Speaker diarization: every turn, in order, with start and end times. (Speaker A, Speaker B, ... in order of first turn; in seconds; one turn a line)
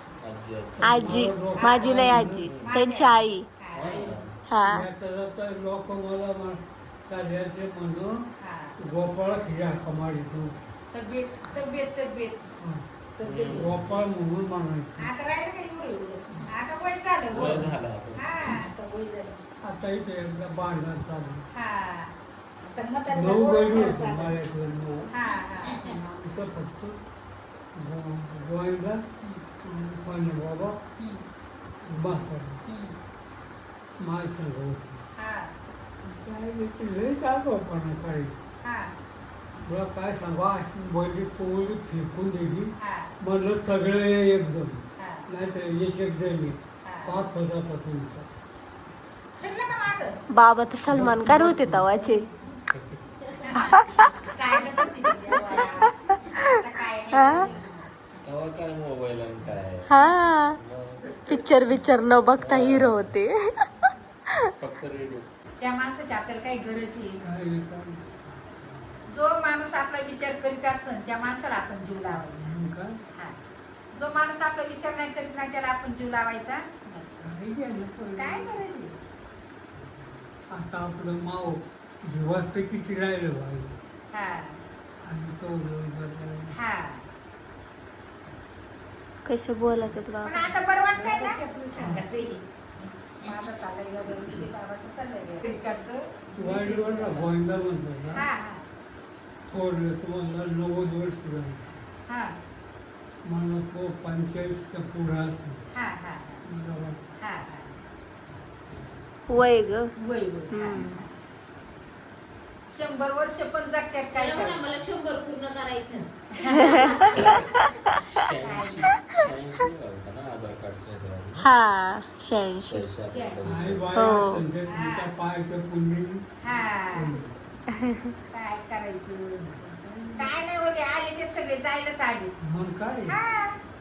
Speaker A: 0.2-1.0
Speaker B: 0.8-2.5
Speaker C: 0.8-3.5
Speaker D: 1.5-4.1
Speaker A: 2.4-2.8
Speaker A: 3.7-4.4
Speaker E: 3.8-4.2
Speaker C: 4.5-4.9
Speaker B: 4.6-8.3
Speaker D: 8.4-8.7
Speaker B: 8.8-10.7
Speaker D: 10.9-12.5
Speaker B: 12.6-12.8
Speaker A: 13.2-14.0
Speaker D: 13.3-13.6
Speaker B: 13.4-15.1
Speaker D: 15.0-18.7
Speaker A: 17.3-18.3
Speaker B: 17.4-17.8
Speaker E: 18.4-19.4
Speaker B: 19.6-21.4
Speaker D: 21.5-22.1
Speaker E: 22.6-24.3
Speaker B: 23.1-25.1
Speaker D: 25.1-25.8
Speaker E: 25.6-25.9
Speaker B: 25.8-27.0
Speaker B: 27.7-29.1
Speaker B: 29.6-30.8
Speaker D: 31.0-31.2
Speaker B: 31.8-32.6
Speaker D: 32.7-33.0
Speaker B: 34.0-35.0
Speaker D: 35.2-35.6
Speaker B: 36.0-38.4
Speaker D: 38.6-38.9
Speaker B: 39.6-48.3
Speaker D: 42.8-43.1
Speaker D: 45.0-45.3
Speaker D: 46.8-47.2
Speaker D: 49.4-50.2
Speaker C: 50.3-52.3
Speaker B: 50.9-51.9
Speaker A: 52.7-53.0
Speaker D: 53.4-57.9
Speaker C: 53.6-54.2
Speaker C: 56.1-56.5
Speaker C: 57.1-57.5
Speaker A: 58.2-61.2
Speaker C: 59.9-60.6
Speaker C: 61.3-63.7
Speaker A: 62.4-63.1
Speaker A: 64.6-65.3
Speaker D: 65.6-67.2
Speaker B: 67.2-69.0
Speaker D: 69.1-72.5
Speaker B: 72.1-73.0
Speaker D: 73.1-73.4
Speaker D: 73.9-77.0
Speaker B: 77.2-78.7
Speaker D: 78.2-79.0
Speaker B: 79.8-83.8
Speaker D: 84.1-84.6
Speaker B: 85.0-86.6
Speaker D: 86.5-87.0
Speaker C: 89.2-90.5
Speaker D: 90.2-91.4
Speaker E: 90.9-93.3
Speaker B: 91.7-92.0
Speaker D: 93.2-97.3
Speaker B: 96.3-98.2
Speaker D: 98.1-98.6
Speaker B: 99.5-101.8
Speaker D: 102.1-102.3
Speaker B: 103.2-105.6
Speaker D: 105.7-106.4
Speaker B: 106.4-107.0
Speaker D: 107.2-107.7
Speaker C: 109.3-109.9
Speaker D: 110.0-111.1
Speaker C: 110.5-111.0
Speaker D: 112.7-114.7
Speaker F: 114.1-117.1
Speaker D: 116.3-117.1
Speaker C: 116.7-118.0
Speaker A: 117.2-117.5
Speaker A: 118.1-121.4
Speaker D: 118.4-119.0
Speaker C: 121.4-122.8
Speaker A: 122.7-123.9
Speaker F: 123.1-123.4
Speaker B: 123.4-126.3
Speaker C: 123.9-124.4
Speaker D: 124.7-125.1
Speaker D: 126.4-127.1
Speaker B: 126.9-127.2
Speaker C: 127.7-128.1
Speaker D: 128.3-129.4
Speaker B: 129.4-130.4
Speaker D: 130.2-132.3
Speaker B: 132.4-133.2
Speaker D: 133.0-133.6